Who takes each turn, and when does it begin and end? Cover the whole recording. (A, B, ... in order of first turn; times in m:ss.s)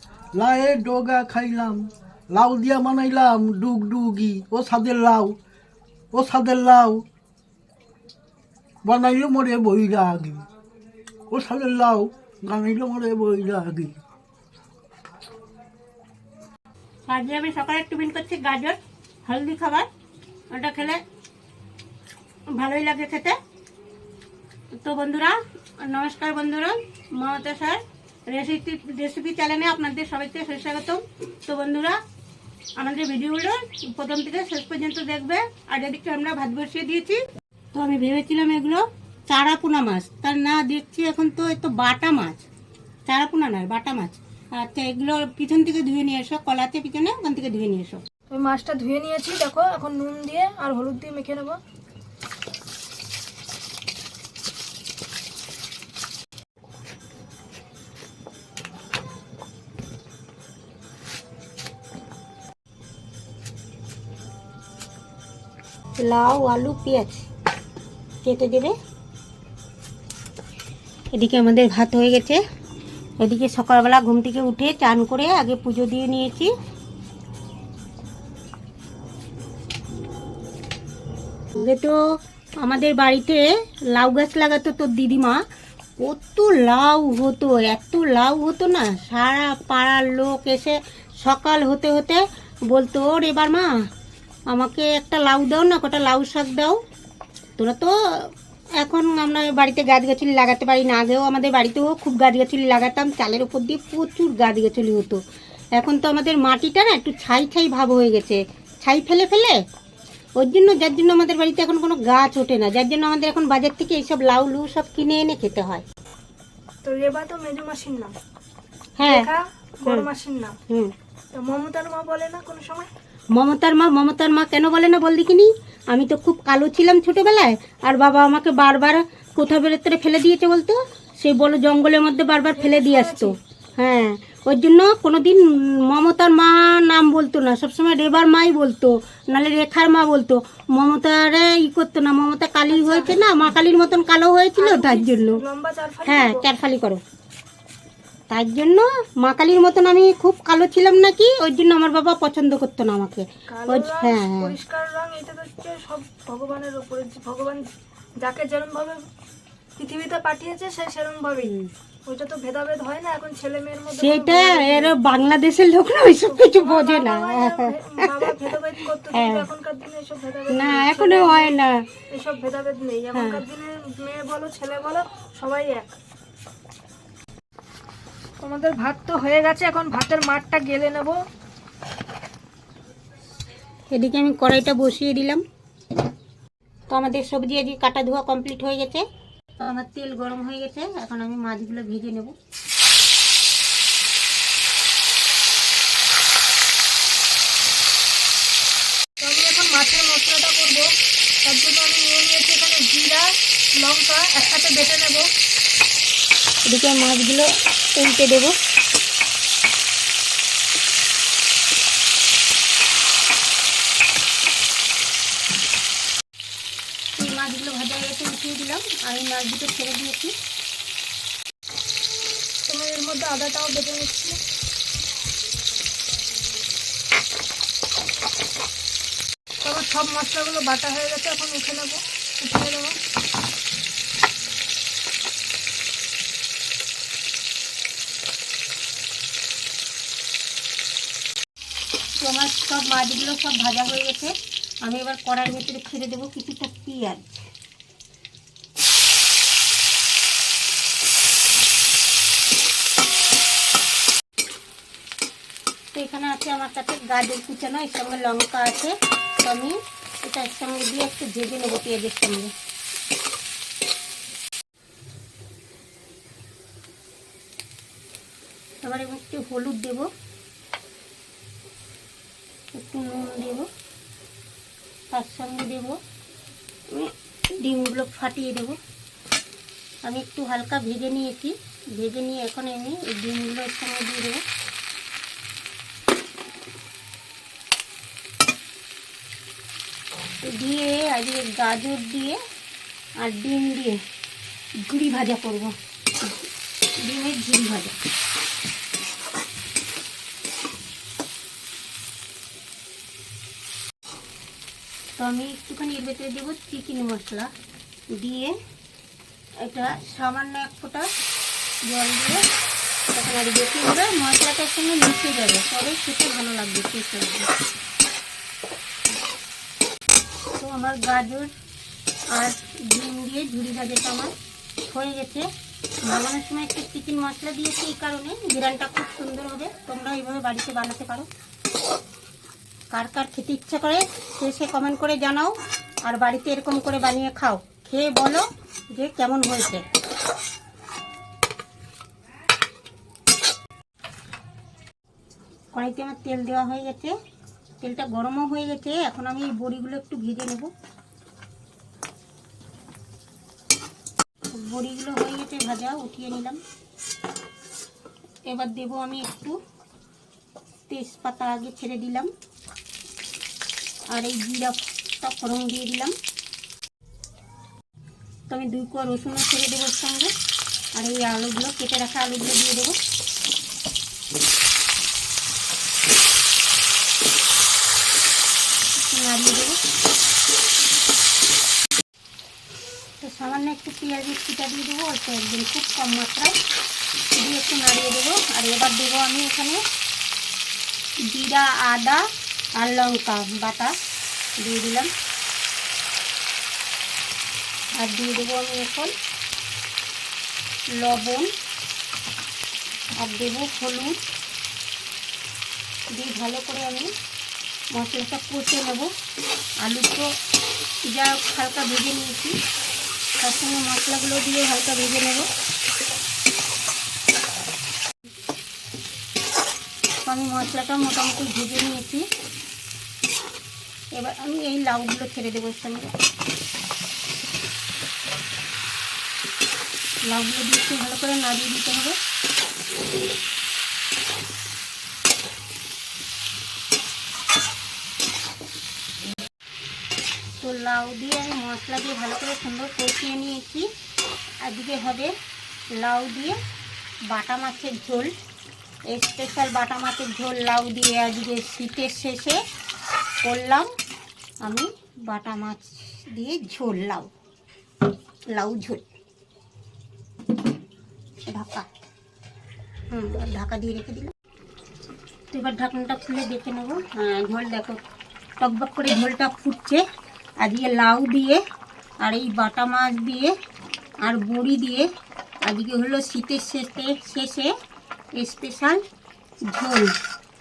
0:00.3-0:05.4 A
0:06.1-0:07.0 A
0:08.8-0:10.4 A
0:11.3-0:14.0 A
0:17.1-0:19.9 B
0:20.5-0:21.0 B
0:22.5-0:23.4 B
0:24.8-0:32.0 B
0:32.8-0:42.4 B
0:43.0-0:48.0 B
0:48.3-0:51.6 C
1:06.0-1:07.3 B
1:08.2-1:08.7 B
1:11.1-1:12.4 B
1:13.2-1:16.5 B
1:21.5-1:22.0 B
1:22.6-1:23.4 B
1:23.9-1:25.4 B
1:26.0-1:33.7 B
1:34.5-1:36.8 B
1:37.6-1:45.2 B
1:45.7-1:49.5 B
1:50.4-1:55.8 B
1:56.8-1:58.1 C
1:59.0-1:59.3 B
1:59.0-2:00.6 C
2:00.7-2:00.9 B
2:01.3-2:02.9 C
2:03.3-2:25.4 B
2:12.5-2:13.4 C
2:22.7-2:23.5 C
2:24.6-2:26.5 C
2:26.0-2:27.0 B
2:28.3-2:34.6 B
2:33.5-2:37.6 C
2:38.2-2:39.0 C
2:39.8-2:41.5 C
2:41.4-2:41.7 B
2:42.1-2:45.0 C
2:43.9-2:48.6 B
2:46.2-2:51.5 C
2:49.1-2:49.5 B
2:50.5-2:51.8 B
2:52.1-2:55.9 C
2:53.1-2:53.4 B
2:58.4-3:01.2 C
3:03.9-3:05.4 B
3:06.9-3:09.0 B
3:09.6-3:12.3 B
3:19.2-3:20.9 C
3:21.4-3:25.3 C
3:26.6-3:28.6 B
3:37.2-3:40.3 B
3:42.7-3:44.4 C
3:49.6-3:53.0 C
4:02.2-4:07.5 B
4:15.9-4:22.5 B
4:28.8-4:30.1 B
4:32.7-4:33.7 B
4:35.1-4:36.0 B
4:36.9-4:38.8 B
4:40.0-4:44.4 B
4:50.5-4:52.4 B
4:53.2-4:54.0 B
4:54.8-4:56.4 B
4:57.0-4:58.0 B
5:05.2-5:07.5 B
5:08.2-5:08.5 B
5:09.6-5:11.0 B
5:11.9-5:12.4 B
5:13.1-5:17.5 B
5:20.6-5:21.5 B
5:22.3-5:24.3 B
5:24.8-5:25.5 B
5:26.0-5:31.3 B
5:32.9-5:39.8 B
5:45.7-5:47.1 B
5:47.8-5:50.7 B
5:54.5-5:56.6 B
5:58.5-5:59.6 B
6:00.9-6:02.3 B
6:04.1-6:06.1 B
6:08.5-6:10.3 B
6:10.9-6:13.0 B
6:19.1-6:19.8 B
6:23.2-6:26.5 B
6:27.4-6:29.8 B
6:31.3-6:32.2 B
6:32.8-6:33.9 B
6:34.6-6:35.1 B
6:38.0-6:39.1 B
6:41.0-6:41.5 B
6:43.2-6:44.2 B
6:46.1-6:47.1 B
6:47.9-6:49.1 B
6:49.8-6:50.2 B
6:51.1-6:52.6 B
6:53.4-6:55.5 B
7:00.2-7:02.2 B
7:04.1-7:06.1 B
7:10.2-7:12.2 B
7:20.6-7:23.8 B
7:24.6-7:25.3 B
7:26.0-7:26.6 B
7:27.3-7:28.3 B
7:29.1-7:32.6 B
7:33.4-7:33.9 B
7:34.6-7:37.3 B
7:38.5-7:39.0 B
7:41.5-7:41.9 B
7:43.1-7:44.3 B
7:45.5-7:48.0 B
7:48.6-7:50.0 B
7:50.6-7:51.6 B
7:52.2-7:53.5 B
7:54.2-7:55.0 B
7:55.7-7:57.7 B
7:58.4-7:59.0 B
7:59.7-8:00.1 B